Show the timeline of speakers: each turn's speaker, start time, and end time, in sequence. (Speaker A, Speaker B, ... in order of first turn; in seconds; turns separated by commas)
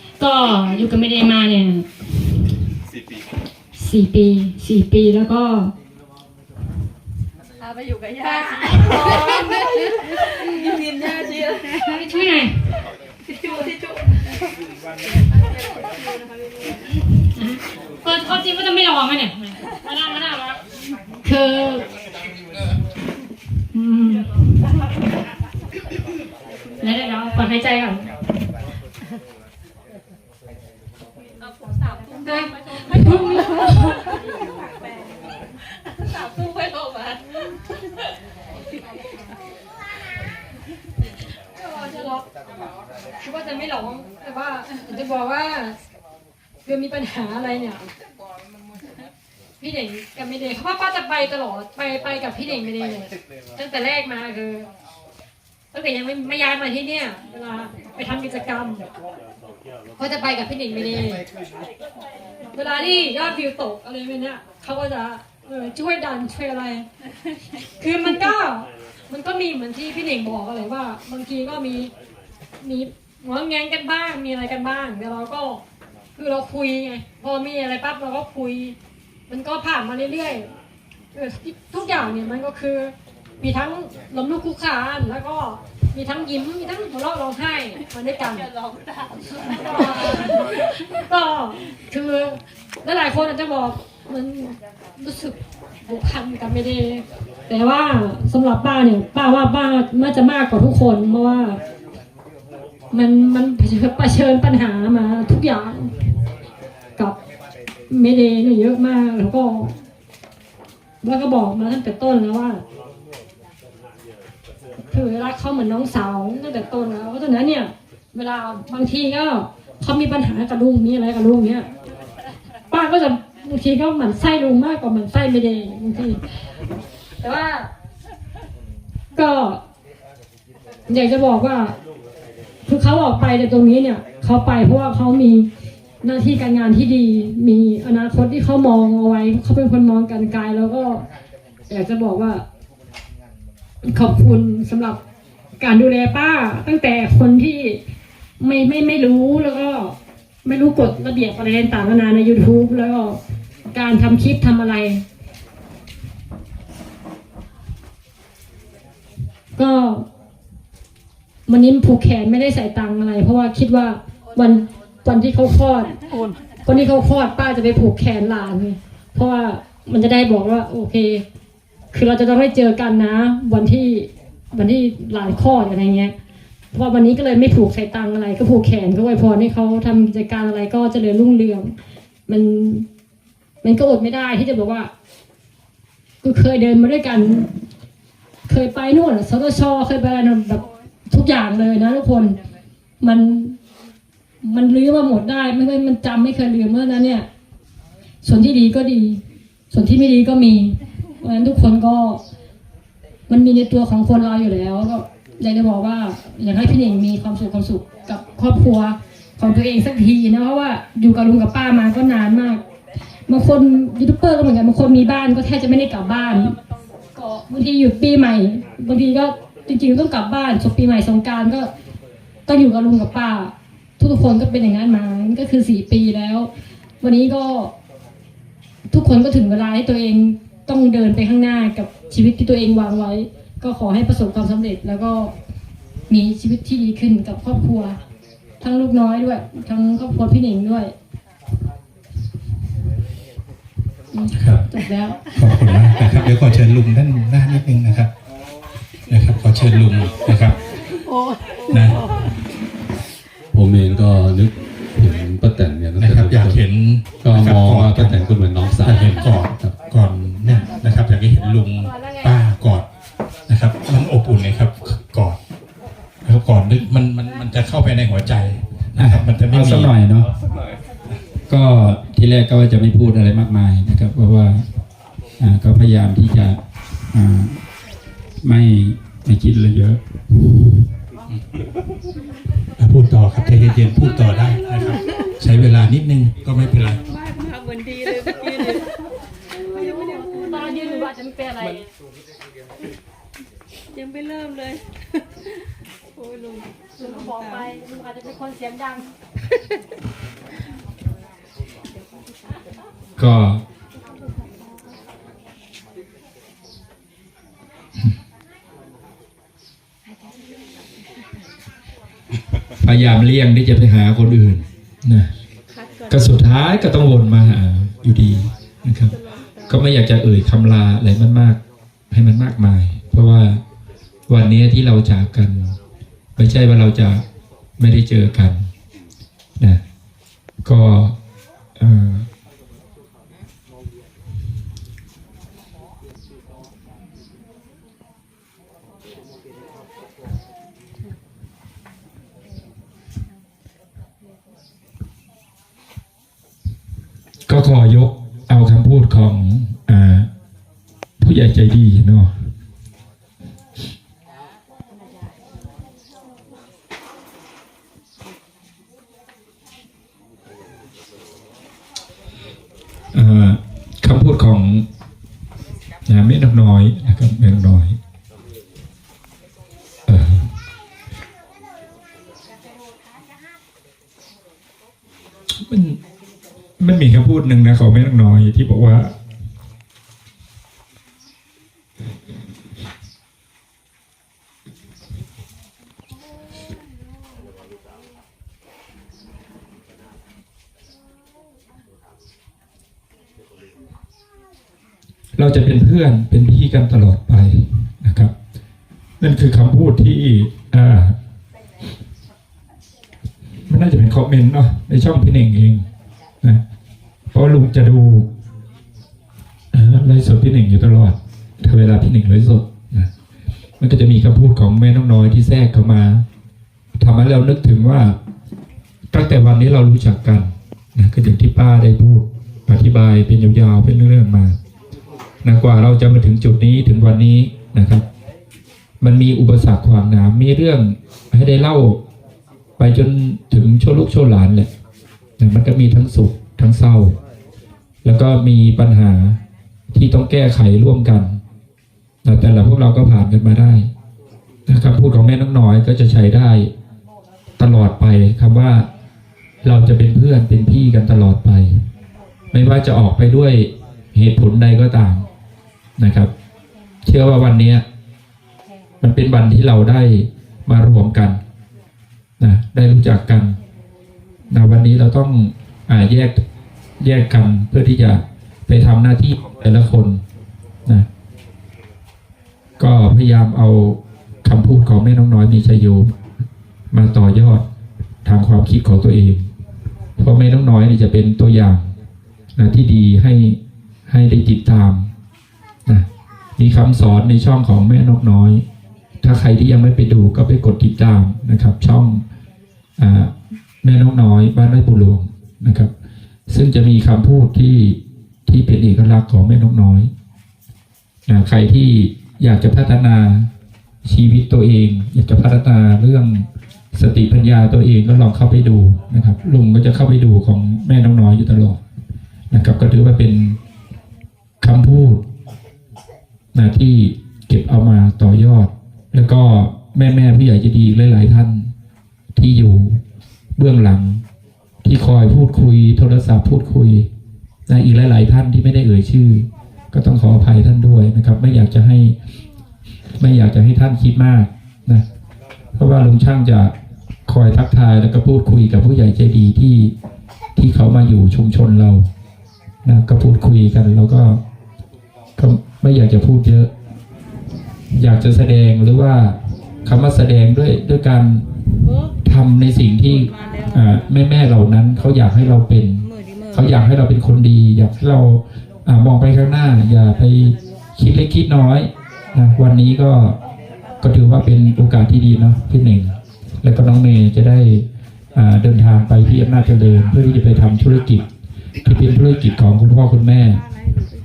Speaker A: 0.2-1.9, Speaker A: 3.8-5.7, Speaker B: 7.6-11.7, Speaker A: 8.5-9.6, Speaker A: 11.8-12.6, Speaker B: 13.5-14.2, Speaker A: 17.2-20.6, Speaker A: 21.2-21.8, Speaker A: 23.7-24.3, Speaker A: 26.8-28.1, Speaker A: 32.2-34.2, Speaker B: 36.1-36.9, Speaker A: 41.5-42.2, Speaker A: 43.2-45.8, Speaker A: 46.6-47.8, Speaker A: 49.6-54.7, Speaker A: 55.7-58.9, Speaker A: 60.0-61.2, Speaker A: 62.5-66.9, Speaker A: 67.8-71.9, Speaker A: 72.6-75.6, Speaker A: 76.2-78.8, Speaker A: 79.3-80.5, Speaker A: 81.1-88.5, Speaker A: 89.5-101.6, Speaker A: 102.9-105.9, Speaker A: 107.9-109.7, Speaker A: 111.0-112.6, Speaker A: 114.9-121.7, Speaker A: 122.7-126.2, Speaker A: 127.2-127.7, Speaker A: 129.1-129.6, Speaker A: 130.9-131.8, Speaker A: 132.7-135.5, Speaker A: 136.0-141.1, Speaker A: 141.7-142.4, Speaker A: 143.8-145.0, Speaker A: 145.6-147.8, Speaker A: 148.4-153.2, Speaker A: 153.7-155.0, Speaker A: 159.6-160.1, Speaker A: 161.5-165.9, Speaker A: 166.7-171.2, Speaker A: 171.9-176.1, Speaker A: 176.7-181.8, Speaker A: 182.3-182.9, Speaker A: 183.6-184.9, Speaker A: 186.2-187.5, Speaker A: 188.5-192.4, Speaker A: 193.0-193.6, Speaker A: 194.4-197.3, Speaker A: 198.2-202.2, Speaker A: 203.3-212.6, Speaker A: 213.3-216.6, Speaker A: 217.2-221.7, Speaker A: 222.5-226.5, Speaker A: 227.0-227.7, Speaker A: 228.9-235.3, Speaker A: 236.1-238.0, Speaker A: 238.6-240.9, Speaker A: 244.1-245.2, Speaker C: 244.3-244.7, Speaker C: 245.3-248.1, Speaker C: 249.1-250.6, Speaker C: 251.7-252.0, Speaker D: 253.5-256.6, Speaker C: 256.0-258.2, Speaker D: 257.2-259.8, Speaker C: 258.8-262.9, Speaker A: 261.8-262.3, Speaker C: 263.5-265.4, Speaker C: 266.2-269.9, Speaker E: 269.0-270.3, Speaker E: 271.5-274.6, Speaker E: 275.4-276.6, Speaker E: 277.1-277.6, Speaker E: 278.4-280.0, Speaker C: 282.8-287.0, Speaker B: 287.1-288.9, Speaker A: 289.8-291.9, Speaker B: 293.9-294.8, Speaker B: 296.2-296.7, Speaker A: 297.0-299.1, Speaker E: 303.2-303.6, Speaker E: 312.8-315.3, Speaker E: 316.1-319.1, Speaker E: 319.7-321.6, Speaker E: 322.1-323.6, Speaker E: 324.3-325.8, Speaker E: 326.4-327.2, Speaker E: 327.8-328.7, Speaker E: 330.6-331.1, Speaker E: 331.8-332.3, Speaker E: 347.5-350.3, Speaker E: 351.2-352.3, Speaker E: 363.1-364.9, Speaker E: 366.1-368.0, Speaker E: 370.1-370.5, Speaker E: 375.5-376.0, Speaker E: 376.8-379.1, Speaker E: 395.4-398.3, Speaker E: 399.2-401.1, Speaker E: 403.7-405.9, Speaker E: 407.3-408.3, Speaker E: 409.7-413.1, Speaker E: 413.8-416.2, Speaker E: 417.0-418.2, Speaker E: 419.1-424.6, Speaker E: 425.4-428.1, Speaker E: 429.0-432.0, Speaker E: 432.8-434.7, Speaker E: 435.4-437.2, Speaker E: 438.0-439.4, Speaker E: 439.9-441.4, Speaker E: 442.2-443.9, Speaker E: 444.7-446.7, Speaker E: 447.6-448.9, Speaker E: 449.6-451.8, Speaker E: 452.5-455.2, Speaker E: 456.0-456.3, Speaker E: 457.0-457.8, Speaker E: 459.0-461.4, Speaker E: 462.4-463.6, Speaker E: 464.5-466.4, Speaker E: 467.0-470.2, Speaker E: 472.8-476.1, Speaker E: 476.9-477.6, Speaker E: 478.2-479.5, Speaker E: 480.2-481.9, Speaker E: 482.6-485.1, Speaker E: 486.6-488.6, Speaker E: 489.2-492.2, Speaker E: 493.0-495.9, Speaker E: 496.5-500.1, Speaker E: 501.3-503.5, Speaker E: 504.0-511.8, Speaker E: 512.5-513.6, Speaker E: 514.6-515.2, Speaker E: 516.5-521.7, Speaker E: 522.4-523.0, Speaker E: 523.5-524.2, Speaker E: 524.8-527.1, Speaker E: 527.7-532.1, Speaker E: 533.1-535.0, Speaker E: 535.8-536.7, Speaker E: 537.3-539.9, Speaker E: 540.5-542.1, Speaker E: 542.8-544.4, Speaker E: 545.4-546.7, Speaker E: 547.9-551.5, Speaker E: 552.2-563.4, Speaker E: 564.0-571.2, Speaker E: 571.8-573.6